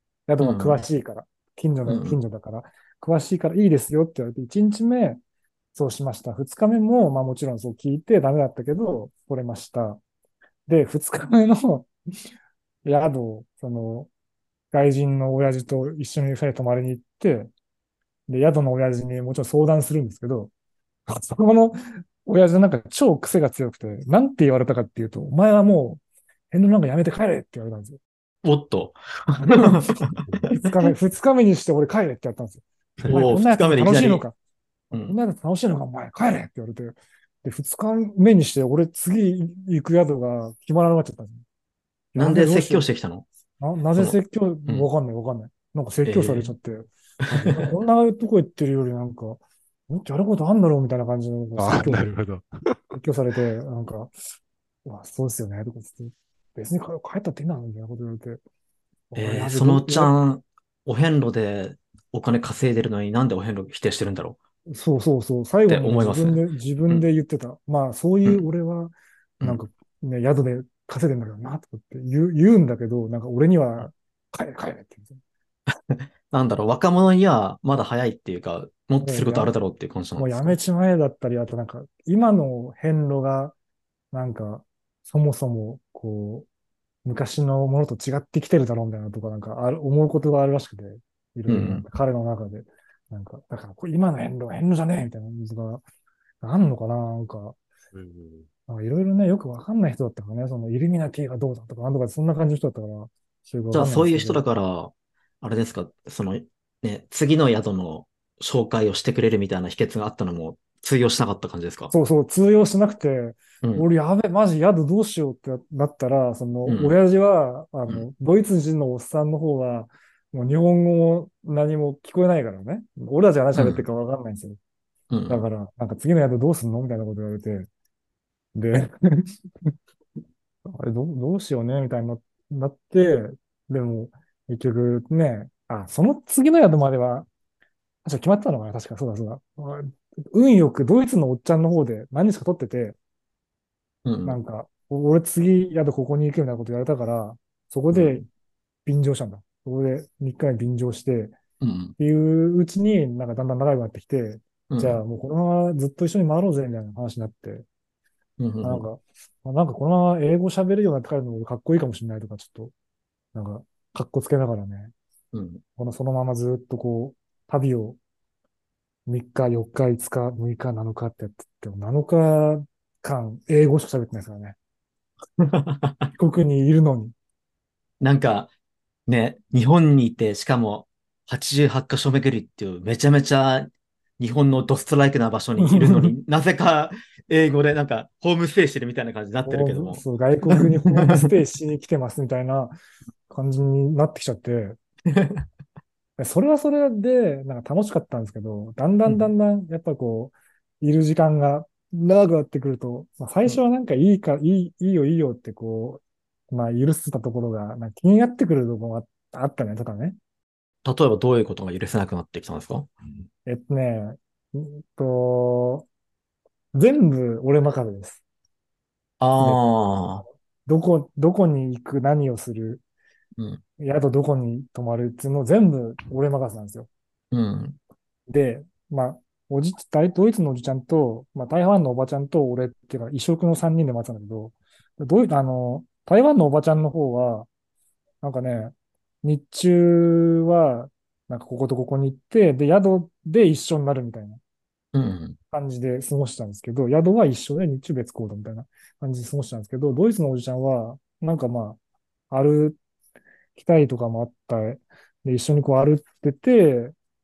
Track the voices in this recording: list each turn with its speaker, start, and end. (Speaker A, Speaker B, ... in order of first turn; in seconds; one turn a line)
Speaker A: 0.3-5.2
Speaker B: 0.4-0.9
Speaker B: 1.9-2.2
Speaker A: 5.8-10.0
Speaker A: 10.7-11.9
Speaker A: 12.8-14.1
Speaker A: 14.7-17.5
Speaker A: 18.3-20.5
Speaker A: 21.1-28.0
Speaker B: 28.4-30.9
Speaker A: 29.4-34.4
Speaker B: 33.0-34.3
Speaker B: 34.9-35.2
Speaker A: 35.0-41.4
Speaker A: 42.1-42.9
Speaker B: 42.2-43.3
Speaker A: 43.6-52.1
Speaker B: 44.0-44.9
Speaker B: 46.0-46.5
Speaker B: 47.2-47.7
Speaker C: 51.6-53.0
Speaker A: 52.9-54.1
Speaker A: 54.9-58.4
Speaker A: 59.1-60.1
Speaker B: 59.1-64.4
Speaker A: 64.7-75.2
Speaker B: 65.7-67.1
Speaker B: 75.9-80.6
Speaker A: 79.0-79.5
Speaker A: 80.2-83.5
Speaker A: 84.1-86.5
Speaker A: 87.0-95.8
Speaker B: 91.5-91.8
Speaker A: 96.4-97.6
Speaker C: 97.9-98.5
Speaker A: 98.7-104.4
Speaker B: 103.7-111.9
Speaker A: 111.9-124.6
Speaker B: 116.7-116.9
Speaker B: 123.5-123.8
Speaker B: 125.1-125.5
Speaker A: 125.3-127.7
Speaker A: 128.6-129.7
Speaker A: 130.7-137.3
Speaker A: 138.1-143.0
Speaker B: 144.1-144.4
Speaker A: 144.2-148.2
Speaker B: 147.9-148.2
Speaker A: 148.8-151.4
Speaker B: 151.6-151.9
Speaker A: 152.0-157.7
Speaker B: 154.7-155.0
Speaker B: 158.4-158.9
Speaker A: 158.6-162.7
Speaker A: 163.3-164.9
Speaker B: 165.3-165.6
Speaker A: 165.8-168.0
Speaker A: 169.1-174.6
Speaker B: 175.4-176.1
Speaker A: 176.2-177.1
Speaker B: 178.0-178.5
Speaker B: 179.1-191.3
Speaker A: 185.6-186.2
Speaker A: 189.4-192.7
Speaker A: 193.3-194.8
Speaker B: 195.1-195.5
Speaker A: 196.2-210.2
Speaker B: 210.8-212.9
Speaker A: 213.5-215.9
Speaker A: 216.7-218.2
Speaker B: 219.2-220.2
Speaker A: 220.2-222.8
Speaker B: 223.4-223.6
Speaker A: 223.8-226.9
Speaker B: 227.3-227.8
Speaker A: 228.3-237.5
Speaker A: 238.2-244.4
Speaker B: 244.9-245.4
Speaker A: 245.5-251.8
Speaker A: 252.3-252.8
Speaker A: 253.6-256.9